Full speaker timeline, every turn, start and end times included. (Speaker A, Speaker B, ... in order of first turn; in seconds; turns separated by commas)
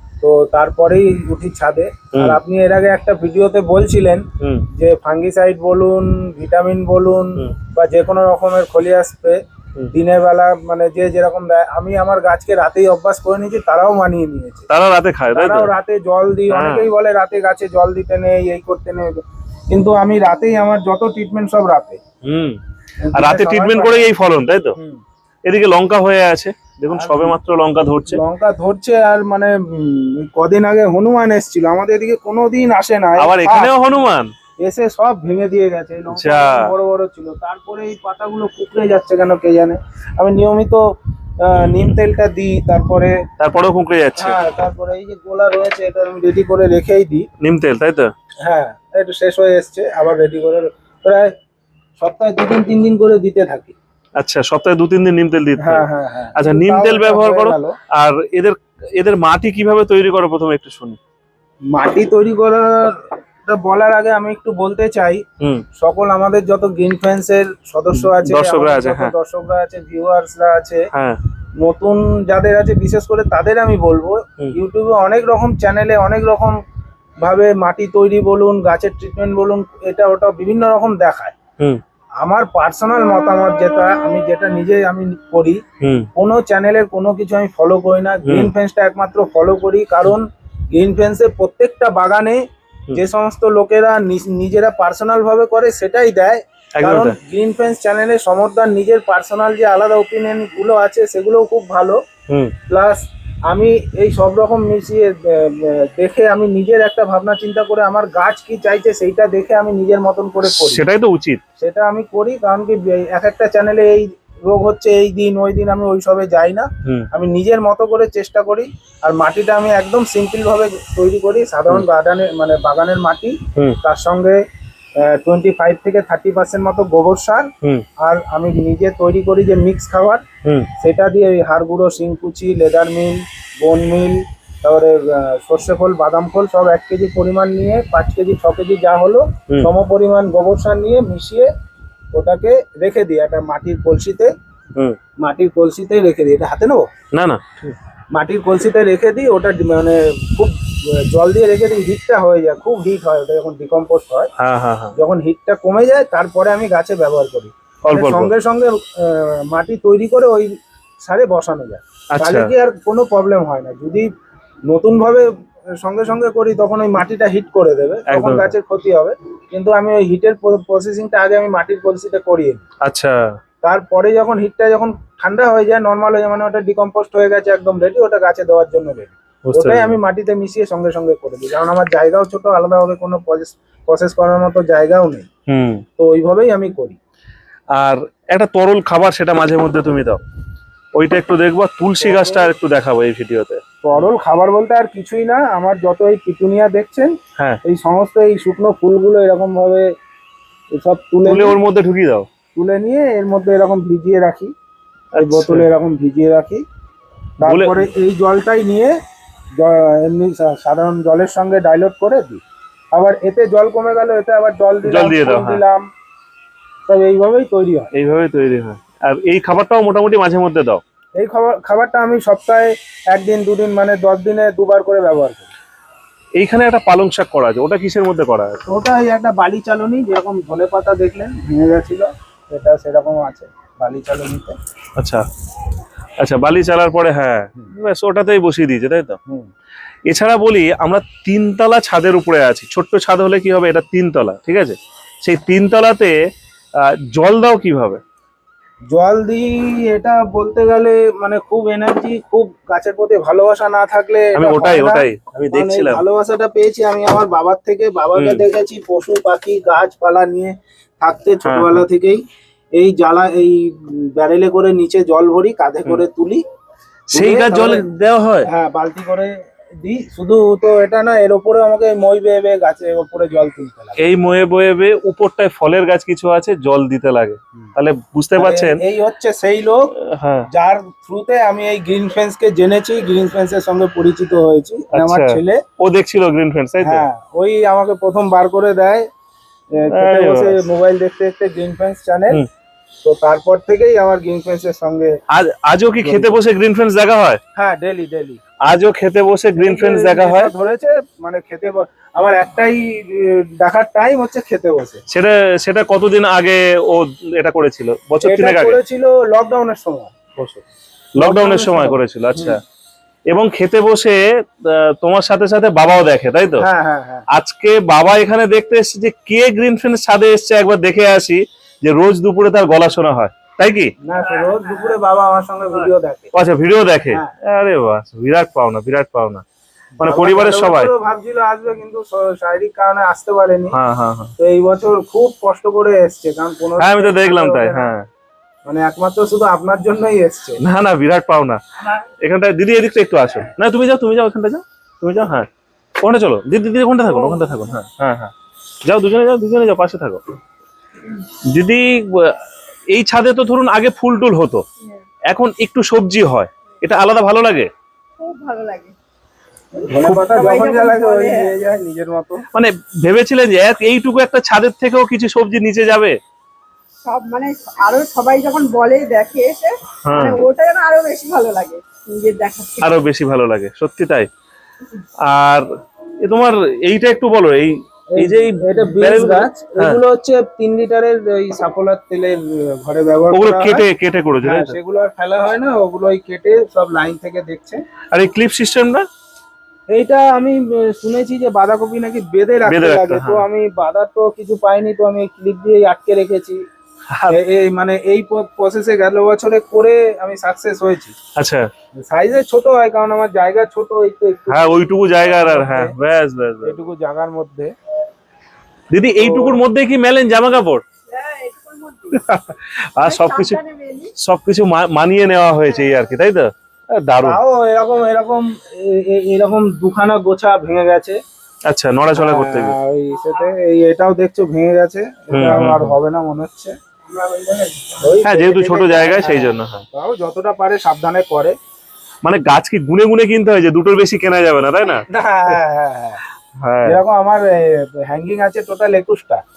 Speaker A: 0.2-4.2, Speaker B: 2.1-2.4, Speaker B: 4.4-4.7, Speaker A: 4.8-9.4, Speaker A: 9.9-14.7, Speaker B: 14.7-15.7, Speaker A: 15.3-19.2, Speaker B: 16.5-16.9, Speaker A: 19.7-22.0, Speaker B: 22.2-22.6, Speaker A: 23.0-24.1, Speaker B: 23.2-24.8, Speaker A: 24.8-25.0, Speaker B: 25.5-28.2, Speaker A: 26.9-27.4, Speaker A: 28.1-33.8, Speaker B: 33.2-34.3, Speaker A: 34.6-40.8, Speaker B: 36.1-36.7, Speaker A: 41.4-43.2, Speaker B: 43.4-44.4, Speaker A: 44.2-47.3, Speaker B: 47.4-48.1, Speaker A: 48.4-51.3, Speaker A: 52.0-53.8, Speaker B: 54.2-61.0, Speaker A: 55.6-57.8, Speaker A: 61.7-65.2, Speaker A: 65.8-70.8, Speaker B: 67.9-69.1, Speaker B: 70.9-71.2, Speaker A: 71.6-76.5, Speaker A: 77.2-81.4, Speaker A: 82.2-85.6, Speaker B: 85.8-86.1, Speaker A: 86.2-92.4, Speaker B: 88.3-88.5, Speaker A: 92.9-102.0, Speaker B: 96.8-97.2, Speaker A: 102.7-110.8, Speaker B: 110.5-111.4, Speaker A: 111.6-124.4, Speaker A: 125.0-127.5, Speaker A: 128.0-130.2, Speaker A: 130.8-141.5, Speaker A: 142.1-144.3, Speaker A: 145.2-146.9, Speaker B: 147.1-147.8, Speaker A: 148.1-150.6, Speaker A: 151.1-154.3, Speaker B: 154.4-154.9, Speaker A: 155.0-160.5, Speaker B: 157.8-158.3, Speaker A: 161.1-164.1, Speaker B: 162.1-162.5, Speaker A: 164.7-165.3, Speaker A: 165.8-172.6, Speaker B: 168.1-168.5, Speaker B: 172.8-173.2, Speaker A: 173.6-185.3, Speaker B: 179.5-180.0, Speaker B: 185.5-185.8, Speaker A: 186.0-187.0, Speaker B: 187.8-190.2, Speaker B: 190.9-194.1, Speaker A: 192.0-192.5, Speaker A: 193.8-197.1, Speaker A: 197.7-199.8, Speaker A: 200.8-201.6, Speaker B: 201.2-202.3, Speaker A: 202.6-204.5, Speaker B: 205.2-205.7, Speaker A: 205.2-206.6, Speaker A: 207.4-208.9, Speaker B: 207.4-207.8, Speaker A: 209.6-212.4, Speaker A: 212.9-215.9, Speaker B: 214.9-215.6, Speaker A: 216.9-217.9, Speaker B: 217.9-220.8, Speaker A: 221.2-225.5, Speaker B: 226.4-228.6, Speaker A: 228.7-234.6, Speaker B: 235.0-235.2, Speaker B: 236.2-239.2, Speaker B: 240.1-246.2, Speaker B: 246.8-248.0, Speaker A: 248.9-262.2, Speaker B: 254.3-256.0, Speaker B: 258.1-258.4, Speaker B: 261.4-261.8, Speaker A: 262.8-266.4, Speaker B: 267.1-268.5, Speaker A: 267.1-267.9, Speaker A: 268.4-269.3, Speaker A: 269.8-274.0, Speaker B: 274.0-278.8, Speaker A: 278.4-279.9, Speaker B: 280.1-280.5, Speaker A: 280.5-285.6, Speaker B: 284.9-287.1, Speaker A: 286.8-289.0, Speaker A: 289.8-292.4, Speaker B: 289.9-290.6, Speaker A: 293.0-295.1, Speaker B: 295.3-297.4, Speaker A: 296.0-296.4, Speaker A: 297.6-298.4, Speaker B: 298.6-300.5, Speaker A: 299.6-305.0, Speaker B: 305.1-308.8, Speaker A: 308.2-310.1, Speaker B: 310.4-310.6, Speaker B: 311.2-312.6, Speaker A: 311.2-312.6, Speaker B: 313.3-316.7, Speaker A: 316.6-317.2, Speaker B: 317.3-323.9, Speaker A: 324.0-326.3, Speaker B: 326.3-329.4, Speaker B: 330.0-330.9, Speaker A: 330.0-333.8, Speaker B: 333.7-334.3, Speaker A: 334.4-337.9, Speaker B: 336.8-338.1, Speaker A: 338.7-340.6, Speaker B: 340.6-341.6, Speaker B: 342.2-345.5, Speaker B: 346.0-348.3, Speaker B: 348.9-350.2, Speaker B: 351.5-352.4, Speaker B: 352.9-354.6, Speaker B: 355.3-357.7, Speaker C: 358.2-358.9, Speaker A: 359.8-362.4, Speaker B: 360.0-360.4, Speaker C: 360.1-361.5, Speaker B: 362.5-366.2, Speaker C: 367.0-372.9, Speaker B: 370.0-370.4, Speaker B: 372.8-374.3, Speaker B: 375.3-375.7, Speaker B: 376.2-380.0, Speaker A: 378.1-383.9, Speaker B: 383.3-384.8, Speaker A: 384.4-387.8, Speaker B: 388.1-389.1, Speaker A: 389.9-396.6, Speaker B: 392.7-393.4, Speaker B: 397.1-397.4, Speaker A: 397.3-401.1, Speaker B: 401.4-401.7, Speaker A: 402.1-405.9, Speaker B: 404.5-406.8, Speaker A: 406.6-407.7, Speaker B: 408.9-410.9, Speaker A: 409.2-409.6, Speaker C: 411.1-412.2, Speaker B: 412.1-413.6, Speaker C: 413.0-414.1, Speaker B: 414.2-417.4, Speaker A: 417.2-421.2, Speaker B: 421.7-422.8, Speaker A: 422.1-431.6, Speaker B: 425.3-426.0, Speaker B: 428.2-429.8, Speaker B: 432.2-435.1, Speaker A: 435.1-436.2, Speaker B: 436.6-437.0, Speaker A: 436.8-439.4